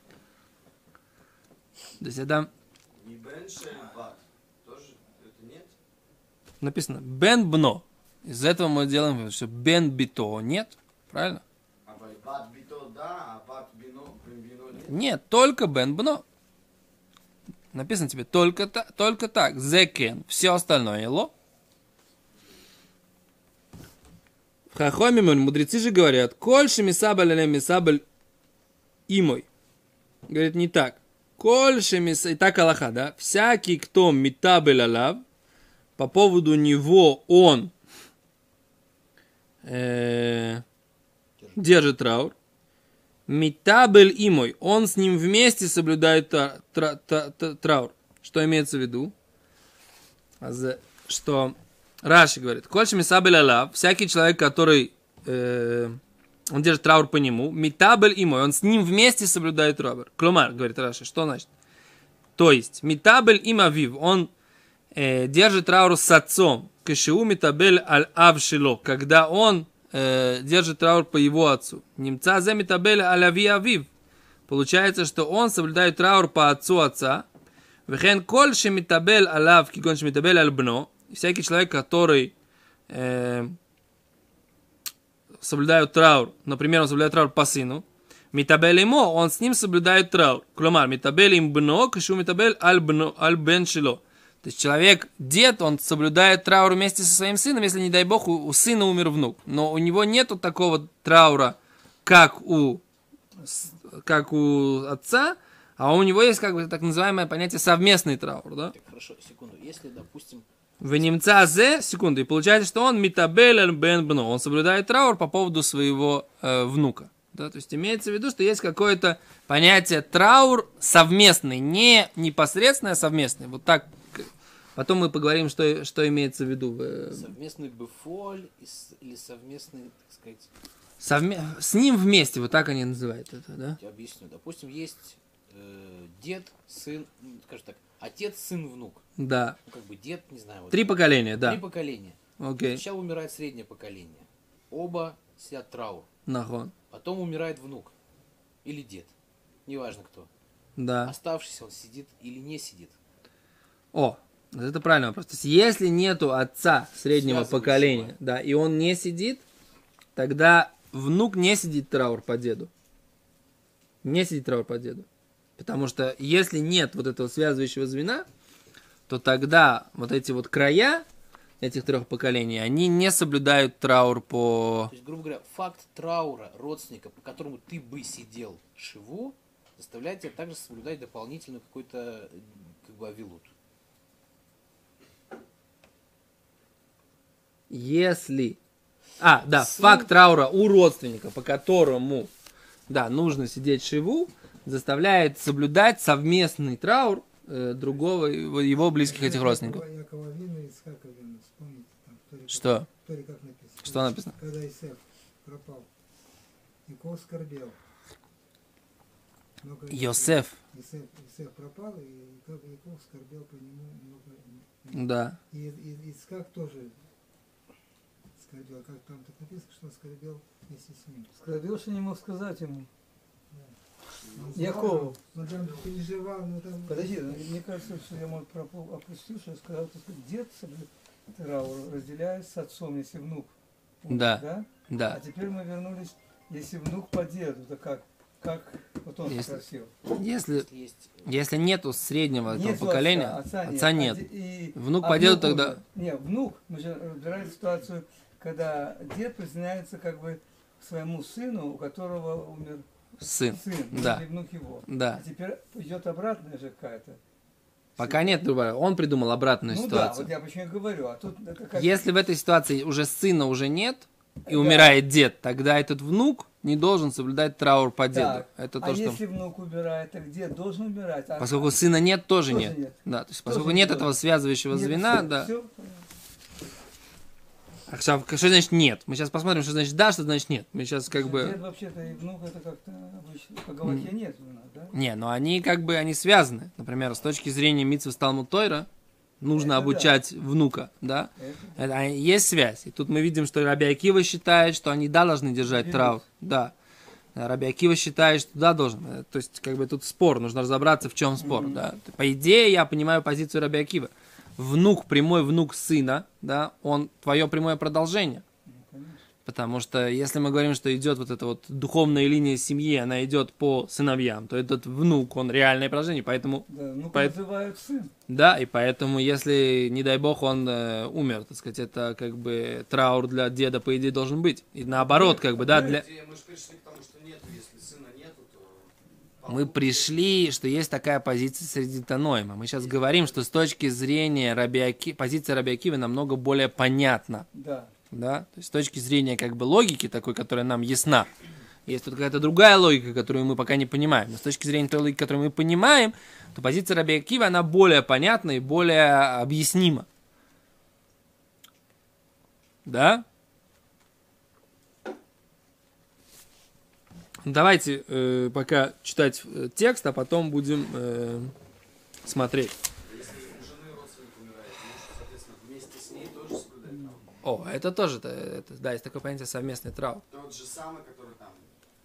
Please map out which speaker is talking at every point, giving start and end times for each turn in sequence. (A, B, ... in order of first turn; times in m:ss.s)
0:02.0-0:02.5 A
0:03.0-0:05.7 B
0:06.6-0:11.4 A
0:11.8-0:15.0 B
0:14.9-0:16.2 A
0:17.7-0:21.3 A
0:24.7-0:28.0 A
0:29.1-0:29.5 A
0:30.3-0:35.2 A
0:36.0-0:37.7 A
0:39.6-0:40.6 A
0:41.6-0:42.3 A
0:43.3-0:49.1 A
0:50.4-0:56.0 A
0:56.5-1:01.5 A
1:02.4-1:04.3 A
1:04.9-1:13.9 A
1:14.5-1:17.2 A
1:17.9-1:22.3 A
1:22.9-1:23.6 A
1:25.4-1:42.8 A
1:43.4-1:48.7 A
1:48.7-1:50.4 C
1:50.8-2:07.3 A
2:07.1-2:10.5 C
2:11.0-2:13.8 A
2:13.8-2:19.0 C
2:19.2-2:19.6 A
2:19.7-2:22.2 C
2:20.7-2:21.6 A
2:22.4-2:22.8 A
2:22.7-2:26.1 C
2:26.2-2:26.7 A
2:26.9-2:27.9 C
2:28.6-2:29.1 C
2:29.6-2:30.3 C
2:30.8-2:31.1 A
2:31.0-2:33.0 C
2:33.9-2:39.4 A
2:37.1-2:38.2 C
2:40.2-2:42.7 A
2:44.0-2:45.0 A
2:45.6-2:48.2 A
2:49.1-2:51.0 A
2:51.6-2:54.9 A
2:54.9-3:03.5 C
3:07.7-3:08.6 A
3:09.2-3:12.3 A
3:09.8-3:10.0 C
3:12.9-3:19.8 A
3:19.0-3:25.9 D
3:22.5-3:22.9 A
3:23.8-3:24.3 A
3:26.8-3:27.8 D
3:29.6-3:37.0 D
3:29.9-3:30.6 A
3:34.9-3:35.4 A
3:38.4-3:41.3 D
3:41.3-3:42.9 E
3:43.5-3:43.8 D
3:44.3-3:44.9 B
3:44.3-3:47.5 D
3:44.5-3:45.2 E
3:46.9-3:59.9 E
3:54.1-3:55.2 A
3:59.2-4:00.7 A
4:00.6-4:01.3 C
4:01.2-4:05.8 A
4:02.5-4:12.8 E
4:13.2-4:14.2 A
4:13.5-4:17.2 E
4:14.8-4:15.2 A
4:18.0-4:20.3 A
4:18.0-4:18.4 E
4:19.7-4:22.0 E
4:21.7-4:29.2 A
4:24.4-4:24.9 E
4:28.1-4:31.8 E
4:31.4-4:35.5 A
4:32.4-4:36.1 E
4:37.9-4:41.6 A
4:41.1-4:44.9 E
4:44.9-4:48.9 A
4:49.4-4:56.7 A
4:49.5-4:50.1 E
4:51.4-4:51.8 E
4:55.6-4:56.2 E
4:57.3-5:08.4 A
5:01.4-5:01.8 E
5:08.7-5:09.2 E
5:09.4-5:17.4 A
5:16.7-5:18.1 E
5:18.3-5:26.0 A
5:24.9-5:26.0 E
5:25.5-5:28.9 B
5:29.4-5:30.2 B
5:29.5-5:37.4 A
5:37.5-5:37.9 E
5:38.1-5:41.3 A
5:41.8-5:50.1 A
5:52.8-5:53.2 A
5:57.4-6:01.5 A
6:02.2-6:02.7 A
6:03.0-6:07.3 B
6:06.9-6:07.1 E
6:07.4-6:10.2 A
6:10.3-6:11.7 B